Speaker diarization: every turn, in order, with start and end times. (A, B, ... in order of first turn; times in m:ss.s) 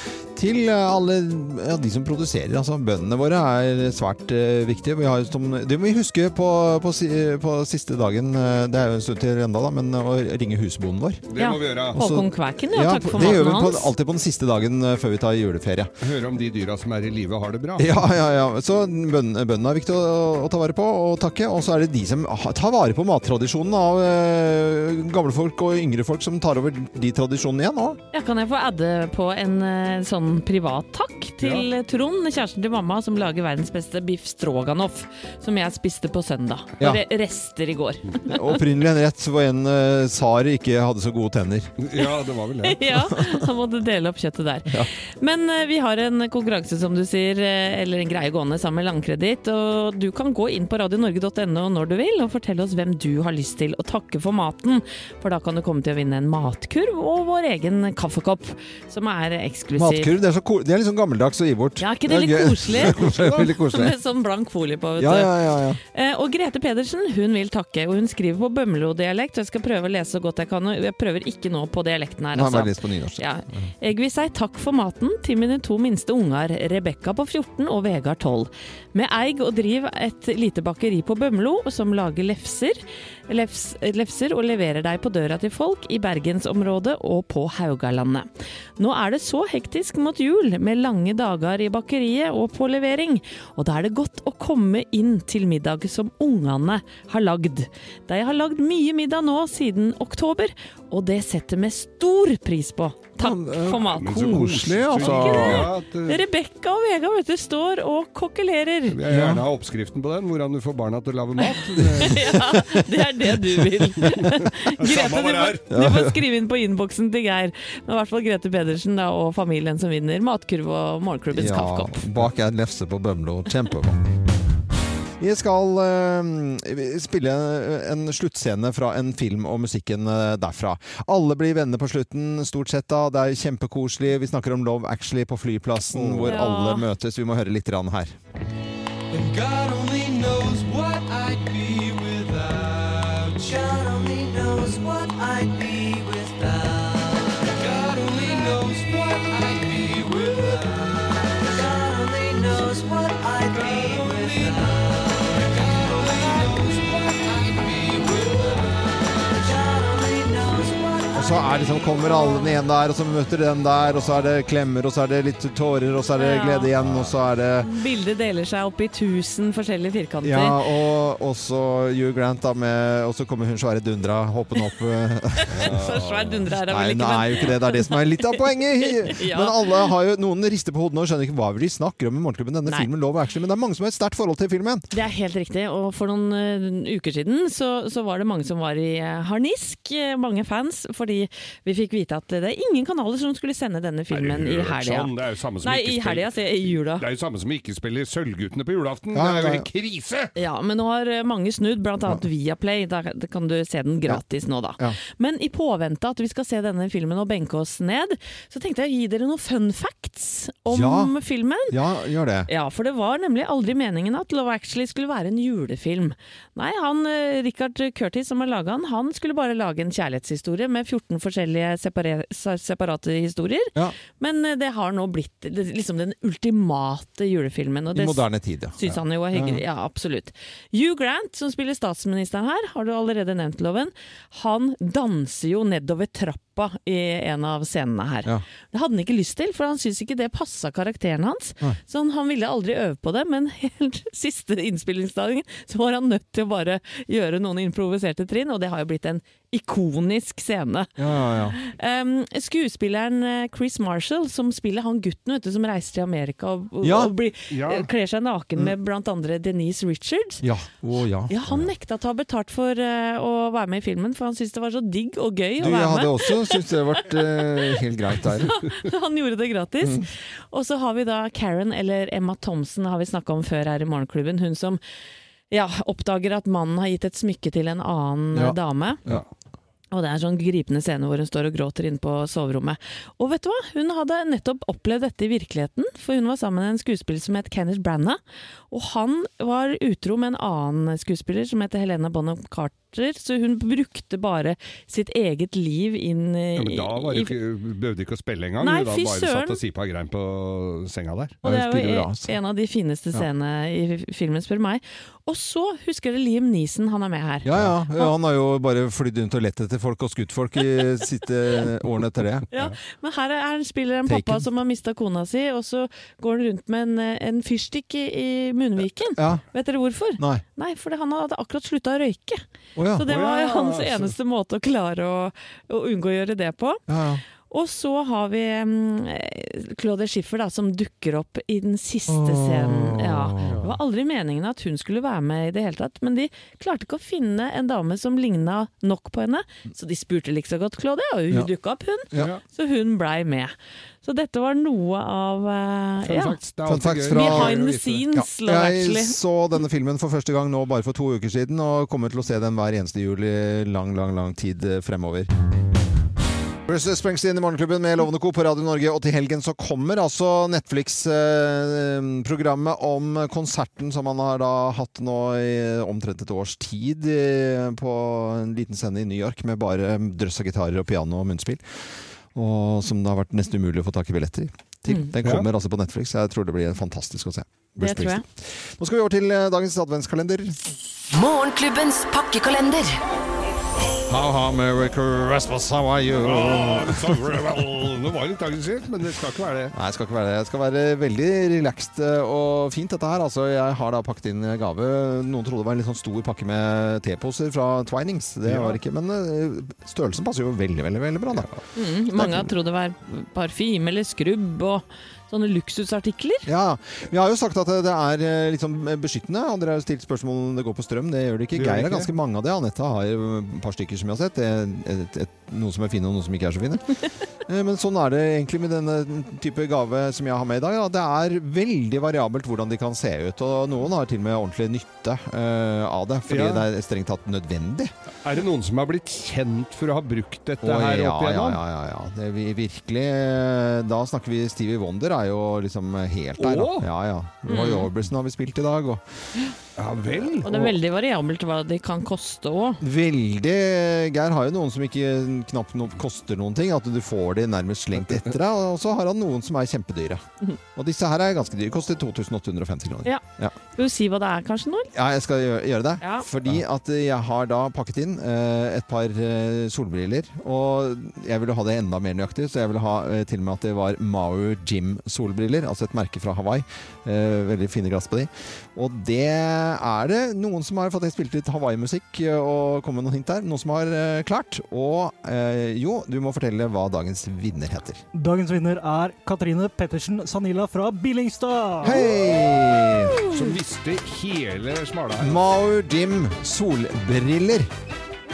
0:00.3-0:11.2 A
0:11.3-0:12.0 B
0:11.4-0:13.9 C
0:11.9-0:15.9 A
0:16.0-0:17.9 B
0:17.8-0:28.0 A
0:28.1-0:38.6 C
0:31.4-0:31.7 B
0:38.3-0:41.7 A
0:41.8-0:42.8 B
0:42.7-1:00.1 C
0:43.1-0:43.5 A
0:59.8-1:04.0 A
1:01.8-1:28.3 C
1:05.0-1:05.8 A
1:12.3-1:13.7 A
1:28.8-1:49.0 C
1:43.2-1:45.7 A
1:43.9-1:46.2 B
1:48.9-1:52.6 B
1:49.0-1:49.4 A
1:51.4-2:02.1 C
1:54.0-1:55.6 B
1:55.7-1:56.2 A
2:01.3-2:04.0 A
2:05.2-2:18.2 A
2:15.9-2:16.3 B
2:16.2-2:16.9 C
2:19.1-2:41.9 D
2:41.1-2:47.7 A
2:46.2-2:46.7 C
2:46.8-2:47.1 B
2:47.6-2:50.6 C
2:50.2-2:55.8 A
2:55.5-2:56.5 B
2:55.5-2:59.8 C
2:56.6-3:04.9 A
3:04.9-3:15.1 C
3:14.1-3:20.3 B
3:15.6-3:17.1 C
3:19.1-3:19.7 A
3:20.4-3:31.8 C
3:30.7-3:31.2 A
3:31.7-3:32.5 A
3:32.5-3:48.2 C
3:47.9-3:48.8 A
3:48.8-4:10.9 C
3:49.3-3:49.6 A
4:11.0-4:11.6 A
4:11.5-4:20.4 C
4:16.8-4:17.1 A
4:17.5-4:17.9 B
4:20.4-4:21.7 A
4:21.3-4:26.6 C
4:25.6-4:28.6 A
4:27.2-4:27.7 C
4:28.4-4:34.8 C
4:29.8-4:30.1 A
4:35.5-4:39.0 C
4:38.3-4:39.2 A
4:39.9-4:57.3 C
4:56.6-5:01.4 B
4:58.6-4:59.6 C
5:01.4-5:08.1 C
5:01.4-5:02.3 A
5:07.4-5:12.5 A
5:12.5-5:22.4 C
5:14.1-5:14.5 A
5:19.2-5:19.4 A
5:20.2-5:20.4 A
5:22.8-5:23.1 A
5:23.0-5:26.8 C
5:23.1-5:24.2 B
5:26.9-5:27.2 A
5:27.5-5:43.5 C
5:32.1-5:33.7 A
5:33.4-5:33.7 B
5:42.2-5:42.4 B
5:44.0-5:46.4 C
5:46.0-5:48.0 B
5:46.7-5:47.6 A
5:47.1-5:49.2 C
5:48.1-5:55.3 A
5:56.7-6:11.6 A
6:12.4-6:20.6 A
6:17.8-6:18.2 C
6:21.1-6:23.0 D
6:23.9-6:27.4 A
6:26.2-6:29.8 B
6:29.7-6:41.5 A
6:38.4-6:38.8 B
6:41.8-6:46.5 C
6:42.1-6:42.5 A
6:46.5-7:07.9 A
6:51.6-6:52.1 B
7:06.3-7:06.7 B
7:08.2-7:11.6 B
7:10.6-7:19.0 A
7:16.4-7:16.9 B
7:17.5-7:17.9 C
7:19.8-7:20.5 B
7:20.2-7:20.8 A
7:20.4-7:22.8 C
7:22.8-7:30.2 A
7:30.8-7:33.5 A
7:33.8-7:34.9 C
7:34.9-7:58.0 A
7:36.0-7:36.3 C
7:58.2-8:02.1 E
8:01.8-8:03.2 A
8:03.3-8:05.4 B
8:05.2-8:07.7 A